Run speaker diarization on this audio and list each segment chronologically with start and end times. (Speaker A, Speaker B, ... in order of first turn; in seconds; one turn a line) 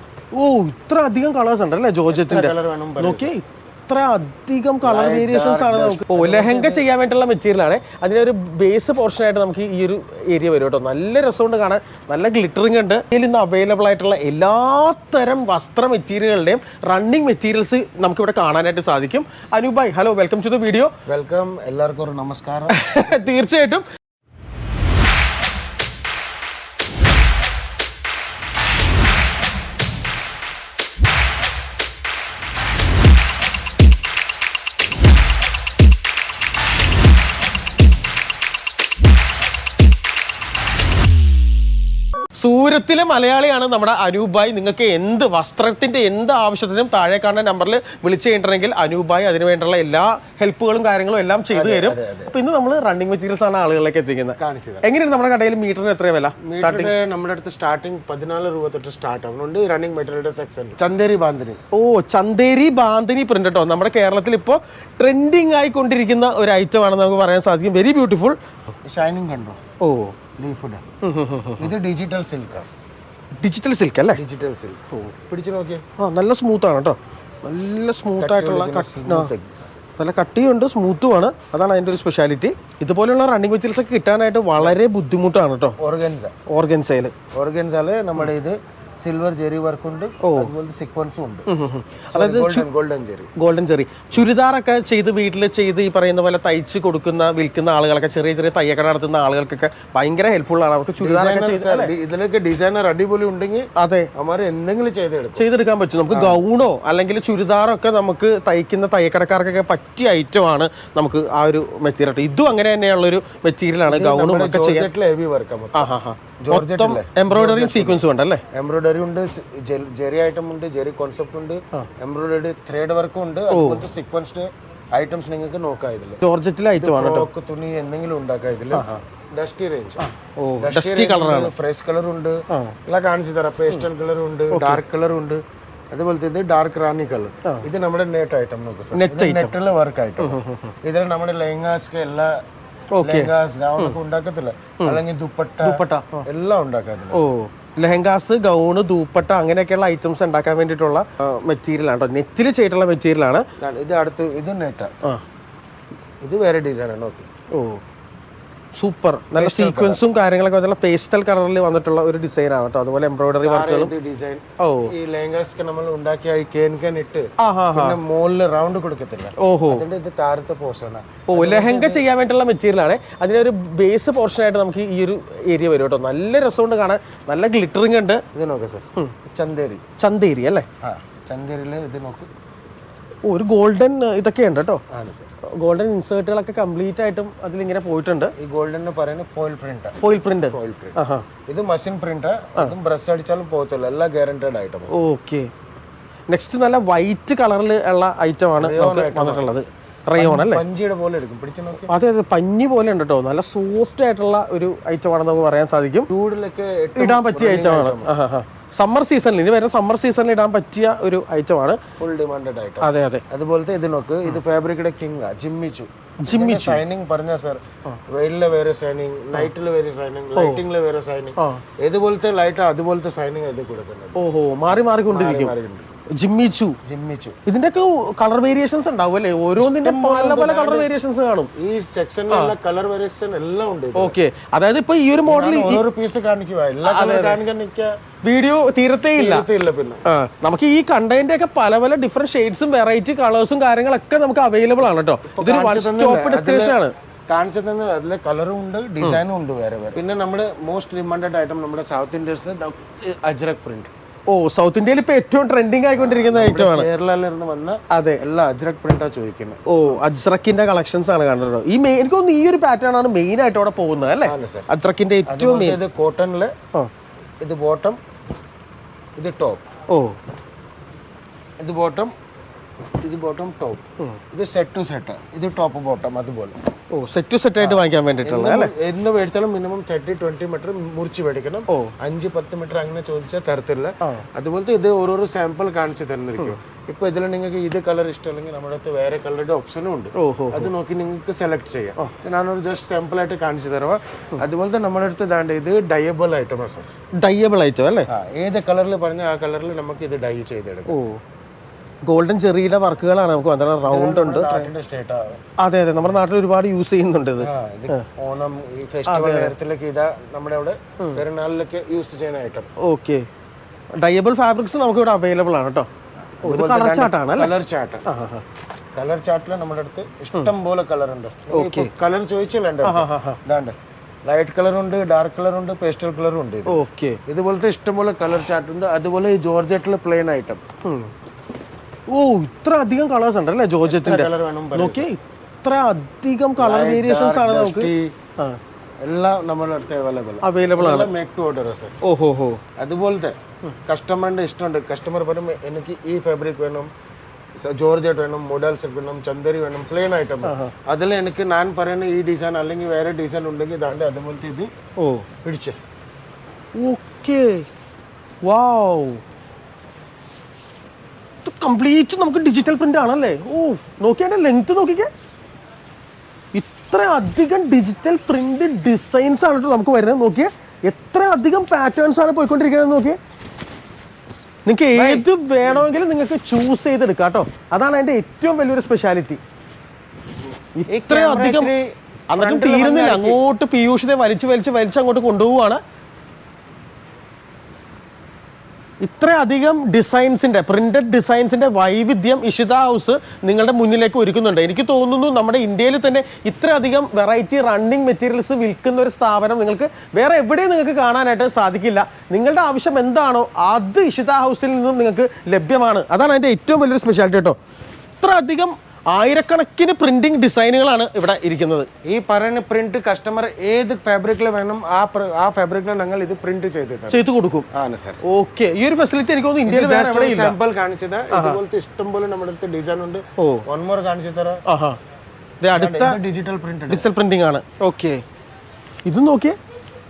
Speaker A: 0.3-20.9
Speaker B: 2.1-3.3
Speaker B: 4.8-6.9
Speaker B: 21.1-23.2
Speaker A: 22.7-23.8
Speaker A: 42.4-56.9
Speaker B: 51.5-52.4
Speaker B: 54.4-54.9
Speaker B: 56.4-61.6
Speaker A: 61.7-68.4
Speaker B: 68.8-69.6
Speaker A: 69.8-70.2
Speaker B: 70.4-70.8
Speaker A: 71.0-71.7
Speaker B: 71.6-72.7
Speaker A: 73.3-74.2
Speaker B: 74.1-75.8
Speaker A: 76.0-79.3
Speaker B: 78.2-79.5
Speaker A: 80.0-85.8
Speaker B: 85.8-86.3
Speaker A: 86.5-87.1
Speaker B: 87.3-91.5
Speaker A: 90.2-90.5
Speaker A: 91.5-92.7
Speaker B: 92.1-93.3
Speaker A: 93.4-101.9
Speaker B: 101.0-105.4
Speaker A: 103.8-104.1
Speaker A: 105.4-114.9
Speaker B: 106.1-106.4
Speaker B: 113.8-126.2
Speaker A: 115.7-118.4
Speaker A: 123.5-123.9
Speaker A: 126.2-127.3
Speaker B: 126.8-130.0
Speaker A: 128.7-129.0
Speaker A: 130.0-131.5
Speaker B: 130.6-142.4
Speaker A: 132.5-132.7
Speaker A: 134.5-134.8
Speaker A: 138.9-139.5
Speaker A: 140.2-140.7
Speaker A: 142.9-143.9
Speaker B: 143.0-147.3
Speaker A: 145.6-146.2
Speaker A: 147.1-153.4
Speaker B: 153.6-154.9
Speaker B: 156.2-157.3
Speaker A: 157.5-157.8
Speaker A: 158.8-163.9
Speaker B: 159.3-160.0
Speaker B: 163.4-172.0
Speaker A: 164.6-164.9
Speaker A: 167.4-168.0
Speaker A: 169.4-169.8
Speaker A: 171.3-178.2
Speaker B: 178.3-179.8
Speaker A: 180.0-180.7
Speaker B: 180.8-182.3
Speaker A: 183.2-184.8
Speaker B: 184.9-185.3
Speaker A: 185.5-188.3
Speaker B: 188.3-190.9
Speaker A: 190.0-191.2
Speaker B: 191.5-194.9
Speaker A: 194.9-195.5
Speaker A: 196.3-200.6
Speaker B: 198.6-199.6
Speaker B: 200.2-201.9
Speaker A: 201.9-206.1
Speaker B: 206.1-208.1
Speaker A: 206.9-211.8
Speaker B: 212.0-224.2
Speaker A: 212.8-213.2
Speaker A: 216.2-216.8
Speaker A: 220.3-220.6
Speaker A: 224.2-225.5
Speaker B: 225.1-225.9
Speaker A: 226.1-226.8
Speaker B: 226.8-227.4
Speaker A: 227.4-231.5
Speaker B: 229.6-230.9
Speaker B: 231.5-234.1
Speaker A: 233.9-235.8
Speaker B: 235.2-237.9
Speaker A: 236.8-237.4
Speaker A: 238.2-239.4
Speaker B: 239.2-240.0
Speaker A: 240.1-246.9
Speaker B: 245.2-253.9
Speaker A: 254.3-256.9
Speaker B: 255.9-260.0
Speaker A: 257.9-258.2
Speaker A: 259.7-265.8
Speaker B: 264.2-264.7
Speaker B: 265.3-266.5
Speaker B: 267.4-268.0
Speaker B: 269.2-269.6
Speaker A: 269.9-270.2
Speaker B: 271.6-272.1
Speaker B: 273.0-276.6
Speaker A: 276.9-278.7
Speaker B: 277.6-296.9
Speaker A: 290.1-290.7
Speaker A: 297.2-298.1
Speaker B: 298.1-300.9
Speaker A: 300.9-301.2
Speaker A: 302.1-304.7
Speaker B: 303.8-305.4
Speaker A: 305.6-308.1
Speaker B: 307.4-312.7
Speaker A: 309.1-309.5
Speaker A: 312.8-313.3
Speaker A: 314.0-315.9
Speaker A: 316.4-317.5
Speaker B: 316.4-318.1
Speaker A: 318.1-318.4
Speaker B: 318.9-323.7
Speaker A: 321.5-321.9
Speaker A: 322.8-323.4
Speaker B: 324.2-330.6
Speaker A: 326.7-327.2
Speaker A: 330.8-331.1
Speaker A: 332.1-338.6
Speaker B: 333.8-335.1
Speaker B: 336.6-338.1
Speaker B: 339.0-341.9
Speaker A: 340.4-341.1
Speaker A: 342.0-342.6
Speaker B: 342.8-346.9
Speaker B: 347.6-354.7
Speaker A: 350.4-350.7
Speaker A: 355.0-355.3
Speaker B: 355.4-355.8
Speaker A: 356.8-357.7
Speaker A: 358.4-359.2
Speaker A: 361.4-365.1
Speaker A: 366.5-373.2
Speaker A: 374.6-379.4
Speaker B: 374.9-375.9
Speaker A: 380.8-381.7
Speaker B: 380.9-383.4
Speaker A: 382.3-385.8
Speaker A: 389.0-407.6
Speaker A: 408.2-411.9
Speaker B: 412.0-417.2
Speaker A: 417.1-417.7
Speaker B: 417.7-418.2
Speaker A: 418.2-420.5
Speaker B: 419.6-424.6
Speaker A: 421.3-421.6
Speaker A: 423.4-423.6
Speaker A: 424.7-425.0
Speaker A: 425.6-426.2
Speaker B: 425.7-427.1
Speaker A: 426.9-428.2
Speaker A: 429.1-429.6